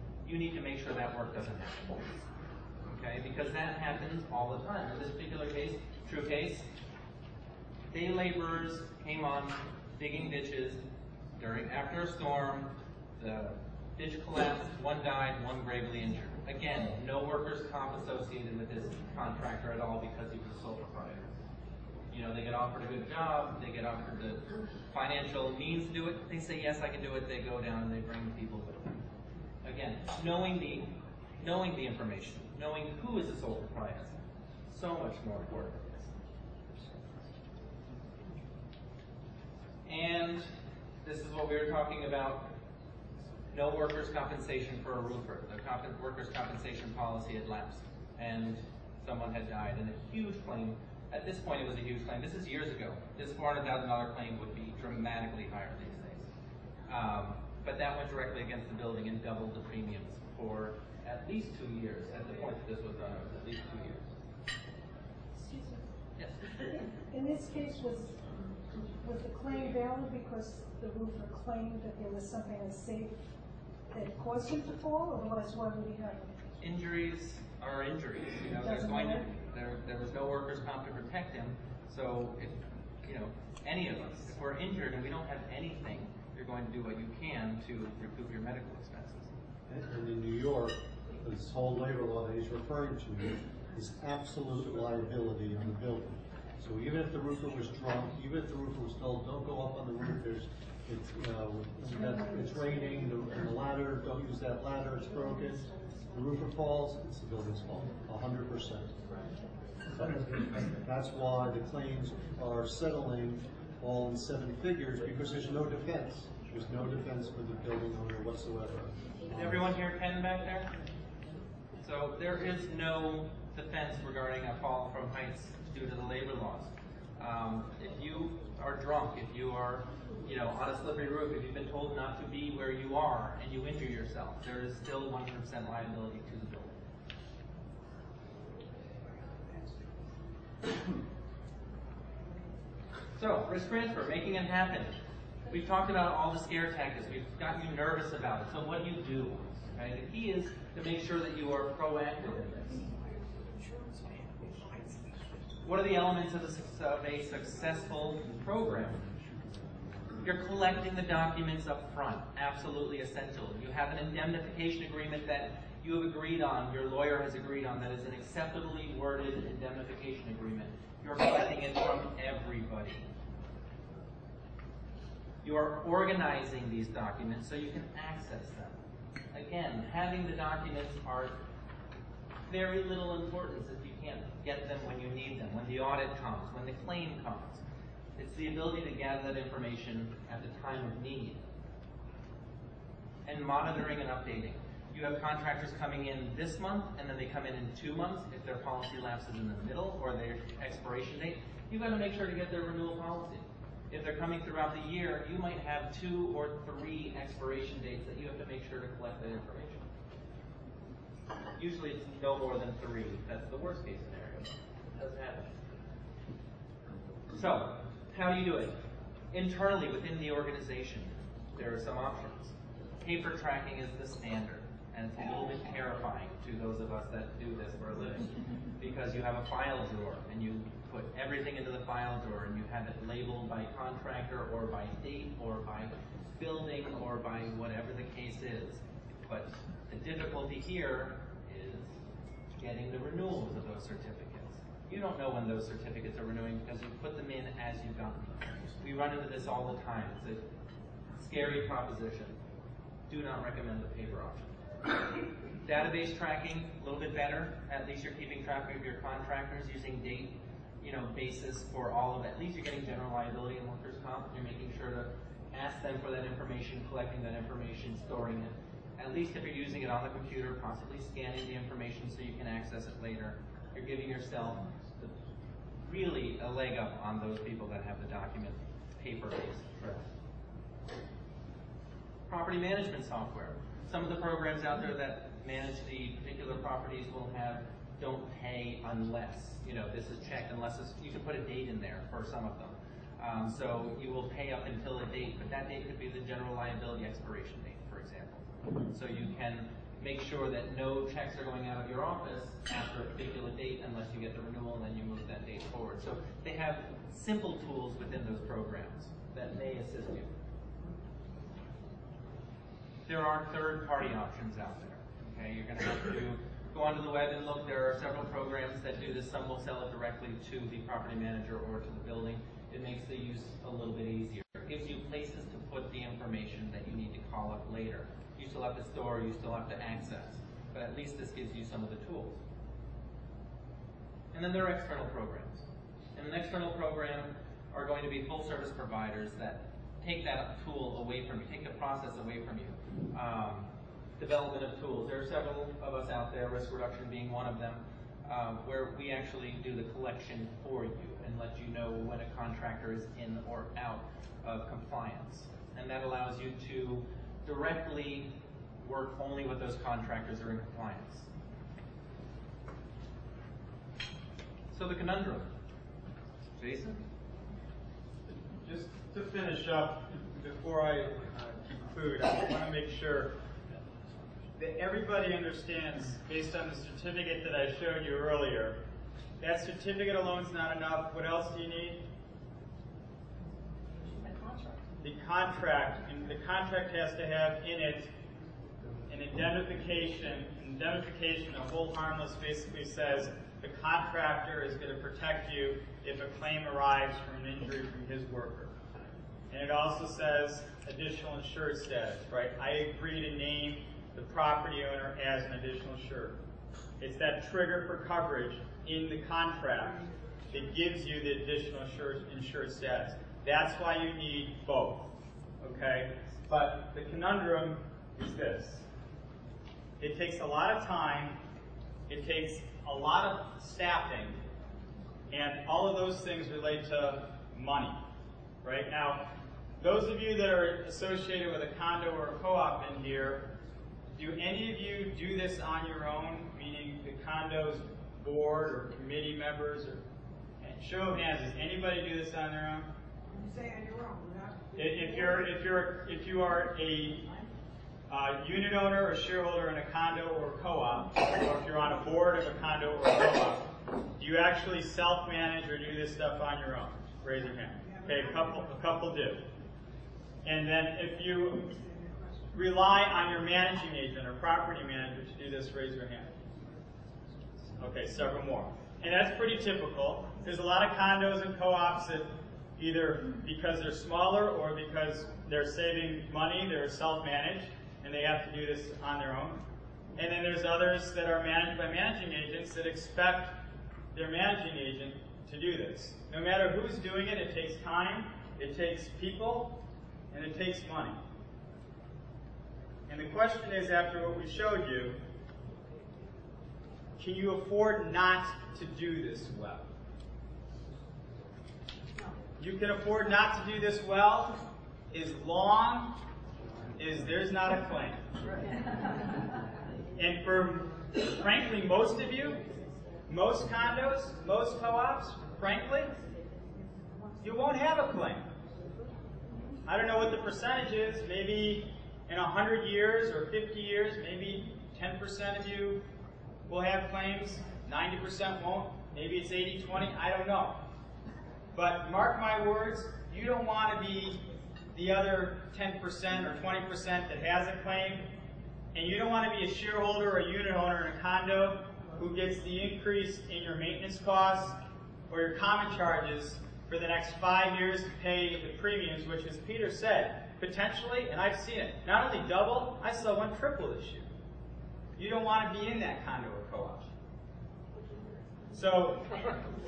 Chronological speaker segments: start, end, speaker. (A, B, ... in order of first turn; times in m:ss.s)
0:00.2-0:02.2 A
0:02.8-0:06.7 A
0:07.9-0:10.8 A
0:11.4-0:21.3 A
0:22.1-0:29.0 A
0:29.6-0:34.2 A
0:34.7-0:35.8 A
0:39.8-0:40.4 A
0:41.0-0:42.5 A
0:43.5-0:56.3 A
0:56.9-1:04.0 A
1:05.3-1:05.8 B
1:06.2-1:06.6 A
1:06.8-1:13.3 B
1:13.9-1:16.4 B
1:16.6-1:29.3 A
1:18.6-1:19.3 B
1:29.7-1:48.9 C
1:41.9-1:42.8 B
1:49.9-1:59.7 C
1:59.3-2:00.7 A
2:01.8-2:16.7 A
2:19.2-2:19.9 D
2:23.2-2:24.9 A
2:25.5-2:32.8 A
2:32.8-2:35.1 D
2:35.6-2:39.1 A
2:40.2-2:53.1 A
2:55.4-2:58.8 A
2:59.3-3:01.4 A
3:02.5-3:07.6 A
3:08.2-3:11.4 A
3:13.2-3:29.8 A
3:31.6-3:35.5 A
3:37.3-3:38.8 A
3:39.3-3:48.3 A
3:48.8-4:01.9 A
4:02.6-4:10.4 A
4:11.2-4:12.4 A
4:13.1-4:14.5 A
4:15.6-4:35.1 A
4:35.8-4:40.0 A
4:42.3-5:10.3 A
5:13.0-5:32.4 A
5:34.3-5:43.7 A
5:44.2-6:01.3 A
6:04.7-6:05.5 A
6:06.6-6:07.0 A
6:08.6-6:13.3 E
6:14.6-6:18.8 E
6:19.4-6:22.0 E
6:25.0-6:28.1 E
6:29.1-6:38.7 E
6:39.5-6:46.4 E
6:47.0-6:58.8 E
7:00.0-7:01.4 E
7:02.1-7:04.4 E
7:05.3-7:08.0 E
7:08.6-7:09.3 E
7:09.8-7:13.5 E
7:14.1-7:20.0 E
7:20.6-7:22.9 E
7:23.3-7:25.4 D
7:24.8-7:27.3 E
7:28.1-7:39.4 E
7:37.8-7:38.6 D
7:40.4-7:41.7 E
7:41.7-7:42.5 D
7:42.5-7:46.3 E
7:47.8-7:59.6 E
8:00.2-8:03.6 E
8:04.1-8:09.8 E
8:10.3-8:11.2 E
8:13.1-8:15.2 E
8:17.2-8:19.9 E
8:22.6-8:24.6 E
8:25.1-8:26.1 E
8:27.0-8:28.2 E
8:30.2-8:32.6 E
8:33.3-8:36.1 E
8:37.4-8:38.5 E
8:39.8-8:46.0 E
8:46.7-8:50.8 E
8:51.7-8:54.4 E
8:54.9-8:58.3 E
8:58.9-9:04.8 E
9:05.3-9:14.3 E
9:15.2-9:17.1 E
9:18.7-9:19.3 E